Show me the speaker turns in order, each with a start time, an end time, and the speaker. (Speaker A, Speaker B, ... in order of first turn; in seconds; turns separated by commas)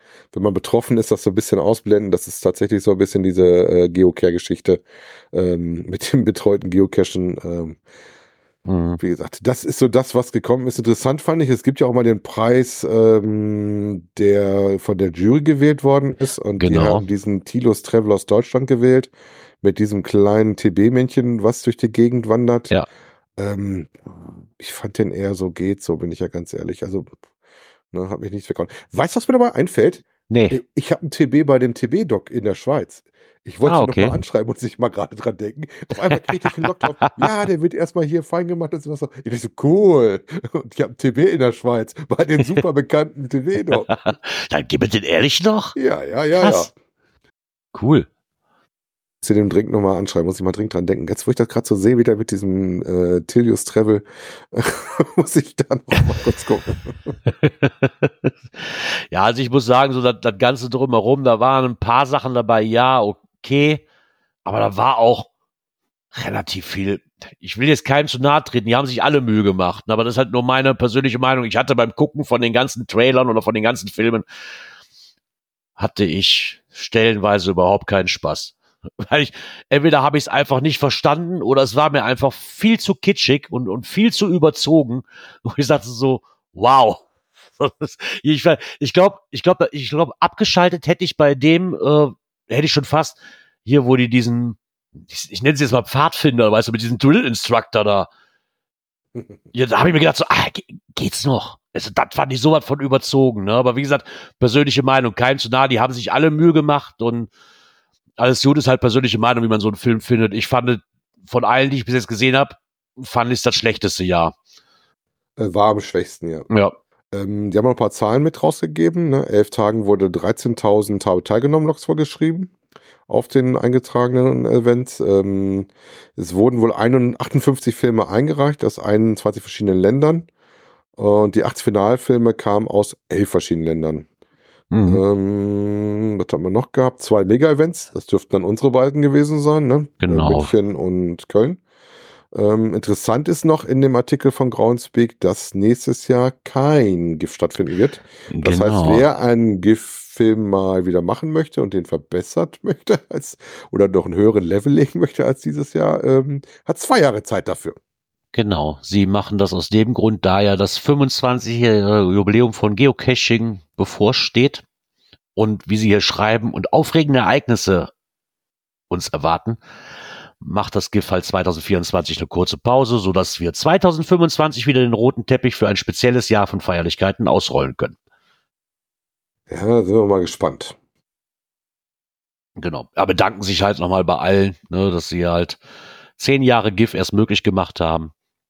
Speaker A: 0.3-7.8, Speaker B: 8.7-9.0, Speaker A: 9.0-22.7, Speaker B: 16.6-17.0, Speaker A: 23.4-23.9, Speaker A: 24.5-27.1, Speaker A: 27.9-43.9, Speaker B: 30.3-30.6, Speaker B: 33.6-34.2, Speaker B: 36.6-37.3, Speaker B: 43.7-45.8, Speaker A: 45.8-46.7, Speaker B: 46.4-46.7, Speaker B: 47.7-48.1, Speaker A: 49.2-57.2, Speaker B: 57.3-63.8, Speaker B: 64.4-65.3, Speaker B: 66.2-74.2, Speaker B: 75.8-87.0, Speaker B: 87.6-98.1, Speaker B: 99.5-107.3, Speaker B: 108.2-114.3, Speaker A: 115.4-116.5, Speaker A: 117.1-122.5, Speaker A: 123.1-130.3, Speaker A: 131.0-134.1, Speaker B: 134.7-135.0, Speaker A: 134.9-141.6, Speaker B: 140.0-140.5, Speaker A: 142.3-157.8, Speaker B: 148.3-149.0, Speaker B: 158.3-164.6, Speaker B: 165.3-167.9, Speaker B: 168.9-169.6, Speaker B: 170.4-177.9, Speaker A: 179.5-180.8, Speaker B: 182.6-185.6, Speaker B: 186.2-188.1